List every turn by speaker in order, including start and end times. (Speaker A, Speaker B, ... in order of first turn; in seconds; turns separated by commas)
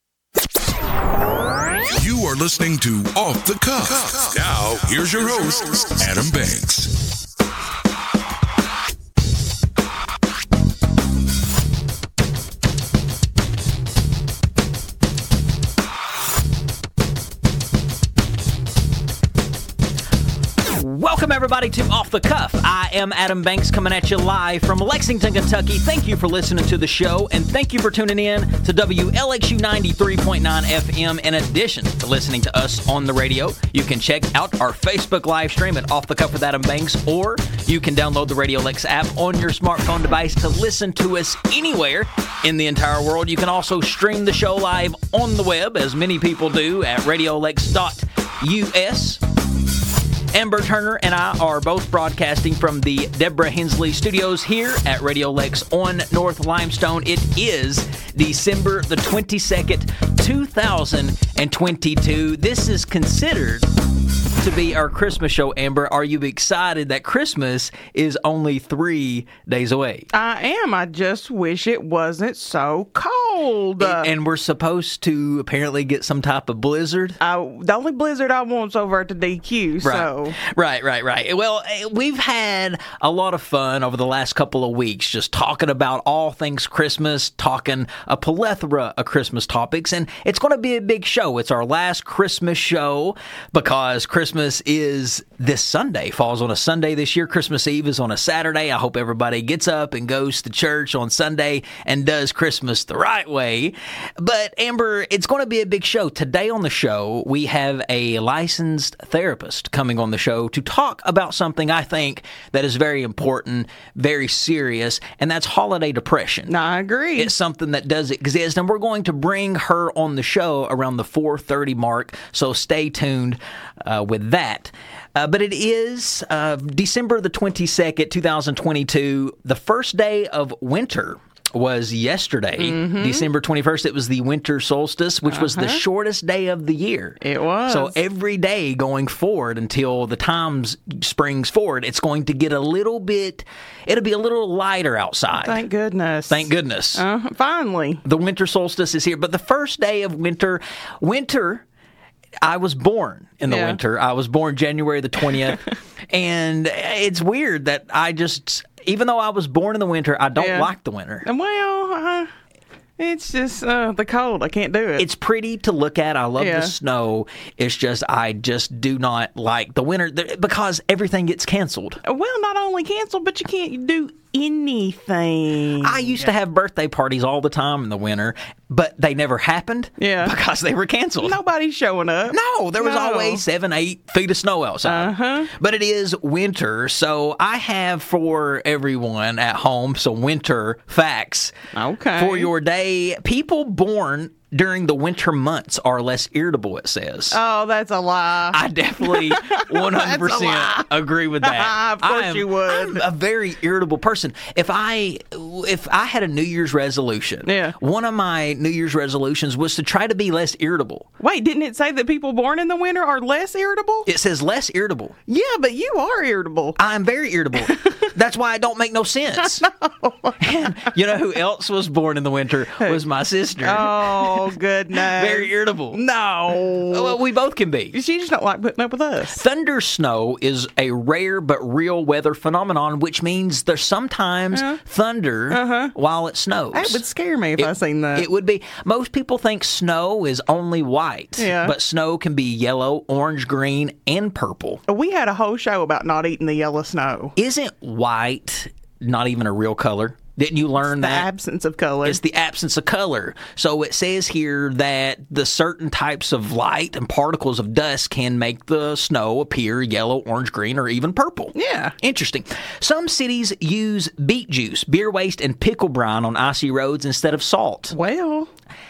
Speaker A: 1.8-6.9, Speaker B: 20.6-49.2, Speaker B: 50.3-63.7, Speaker B: 64.4-70.1, Speaker C: 70.1-74.1, Speaker B: 73.8-77.2, Speaker C: 77.2-80.4, Speaker B: 79.8-116.5, Speaker C: 116.5-117.3, Speaker B: 117.2-145.6, Speaker C: 132.6-133.3, Speaker C: 135.3-135.8, Speaker C: 137.2-137.9, Speaker C: 145.4-148.0, Speaker B: 146.3-147.0, Speaker B: 148.0-151.6, Speaker B: 152.4-161.3, Speaker C: 153.4-153.8, Speaker C: 155.2-155.7, Speaker C: 160.3-160.7, Speaker C: 161.2-162.3, Speaker C: 163.0-165.1, Speaker B: 165.0-172.0, Speaker C: 166.4-166.7, Speaker C: 172.0-176.3, Speaker B: 175.8-181.4, Speaker C: 180.0-180.3, Speaker C: 181.2-183.4, Speaker B: 182.3-191.5, Speaker C: 184.8-185.5, Speaker C: 191.7-192.5, Speaker B: 192.2-197.4, Speaker C: 197.3-203.0, Speaker B: 198.5-211.1, Speaker C: 207.4-207.8, Speaker C: 211.2-214.1, Speaker B: 214.1-215.1, Speaker C: 215.3-216.8, Speaker B: 216.8-219.7, Speaker C: 217.6-218.1, Speaker C: 219.4-220.9, Speaker B: 220.4-224.5, Speaker C: 223.6-227.2, Speaker B: 225.1-226.0, Speaker B: 226.9-228.0, Speaker C: 227.9-229.4, Speaker B: 229.3-237.0, Speaker C: 234.5-234.8, Speaker C: 235.5-235.9, Speaker C: 236.7-238.3, Speaker B: 237.6-244.8, Speaker C: 241.4-241.7, Speaker C: 244.9-247.3, Speaker B: 247.3-251.3, Speaker C: 250.8-252.2, Speaker B: 252.0-267.9, Speaker C: 261.5-261.9, Speaker C: 267.9-268.5